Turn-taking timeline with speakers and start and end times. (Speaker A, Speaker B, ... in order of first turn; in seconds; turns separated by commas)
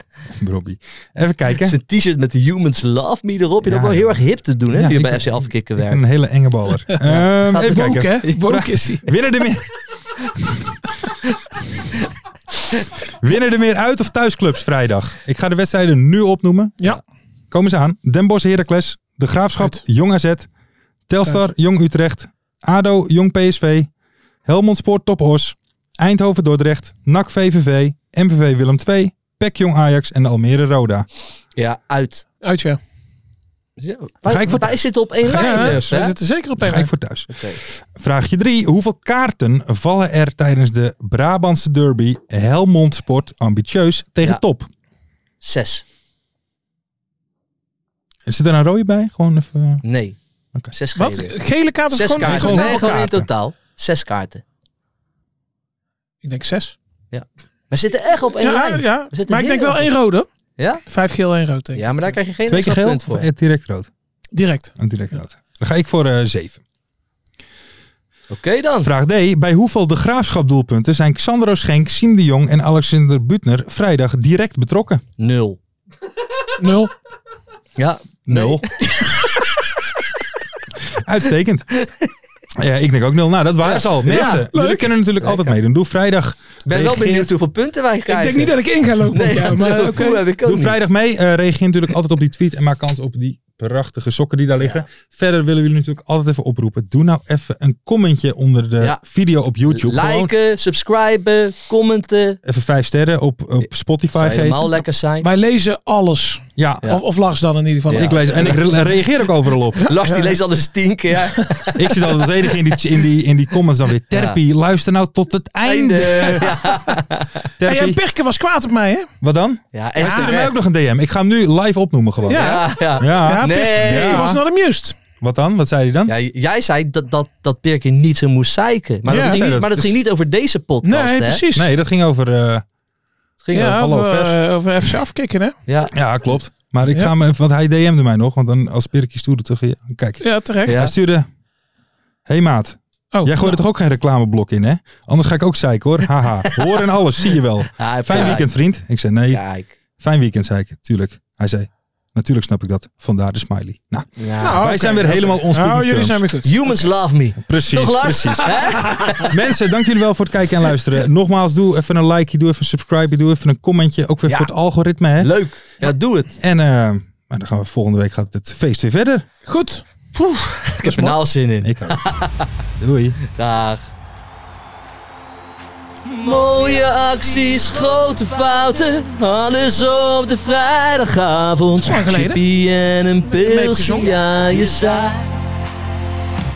Speaker A: 0.3-1.8, Speaker B: 1.6-6.0, Speaker A: 3.6-9.7, Speaker B: 7.0-8.4, Speaker C: 7.6-9.1, Speaker A: 13.2-16.8, Speaker A: 17.5-20.5, Speaker A: 21.1-23.9, Speaker A: 24.4-31.1, Speaker B: 31.6-32.2, Speaker C: 32.4-32.8, Speaker B: 33.8-36.1, Speaker A: 34.2-36.0, Speaker C: 35.2-36.9, Speaker A: 36.6-44.7, Speaker B: 37.3-37.6, Speaker B: 45.4-45.8, Speaker A: 48.2-49.8, Speaker B: 49.8-50.2, Speaker B: 50.7-51.4, Speaker C: 51.0-52.9, Speaker B: 51.9-54.4, Speaker A: 52.2-53.3, Speaker C: 56.2-56.8, Speaker B: 57.1-59.9, Speaker C: 58.4-60.3, Speaker B: 60.6-60.8, Speaker C: 60.9-62.1, Speaker B: 61.7-63.2, Speaker A: 62.5-63.9, Speaker C: 64.3-64.7, Speaker A: 64.8-66.6, Speaker B: 68.3-68.9, Speaker A: 68.8-75.0, Speaker B: 75.2-75.6, Speaker C: 76.6-76.9, Speaker B: 77.8-79.2, Speaker A: 78.2-78.6, Speaker A: 81.0-81.7, Speaker B: 81.7-82.1, Speaker A: 82.5-87.3, Speaker B: 83.9-84.5, Speaker C: 84.0-84.9, Speaker B: 85.2-85.6, Speaker B: 86.7-90.8, Speaker C: 88.1-90.2, Speaker A: 90.4-100.3, Speaker B: 94.6-94.8, Speaker B: 99.7-102.4, Speaker A: 102.4-104.8, Speaker B: 103.6-105.3, Speaker C: 105.2-108.6, Speaker A: 106.6-107.0, Speaker B: 107.9-108.7, Speaker A: 107.9-109.9, Speaker C: 109.8-110.4, Speaker B: 109.9-112.0, Speaker C: 111.3-111.7, Speaker A: 111.8-116.7, Speaker B: 114.1-114.4, Speaker B: 115.6-117.4, Speaker A: 117.6-118.0, Speaker C: 117.6-119.1, Speaker A: 119.2-124.4, Speaker B: 119.7-120.5, Speaker C: 120.0-120.4, Speaker C: 122.3-125.0, Speaker B: 122.3-124.3, Speaker A: 125.2-126.1, Speaker B: 126.1-131.4, Speaker A: 129.0-129.9, Speaker C: 129.1-129.4, Speaker C: 130.8-131.7, Speaker A: 131.5-132.6, Speaker B: 133.4-133.8, Speaker C: 133.5-135.6, Speaker A: 133.6-134.4, Speaker B: 135.7-135.9, Speaker A: 135.9-141.3, Speaker C: 140.2-140.8, Speaker B: 140.7-140.9, Speaker A: 142.3-149.4, Speaker C: 143.1-143.6, Speaker B: 147.8-148.5, Speaker B: 149.3-149.7, Speaker A: 150.0-156.2, Speaker B: 154.2-154.8, Speaker C: 154.4-156.6, Speaker B: 156.4-159.3, Speaker A: 157.4-169.2, Speaker B: 165.2-166.3, Speaker C: 169.4-169.8, Speaker B: 170.1-172.5, Speaker C: 170.8-171.2, Speaker A: 171.6-172.0, Speaker A: 172.8-173.2, Speaker B: 173.2-173.9, Speaker B: 176.0-185.3, Speaker C: 181.8-182.4, Speaker C: 183.3-184.2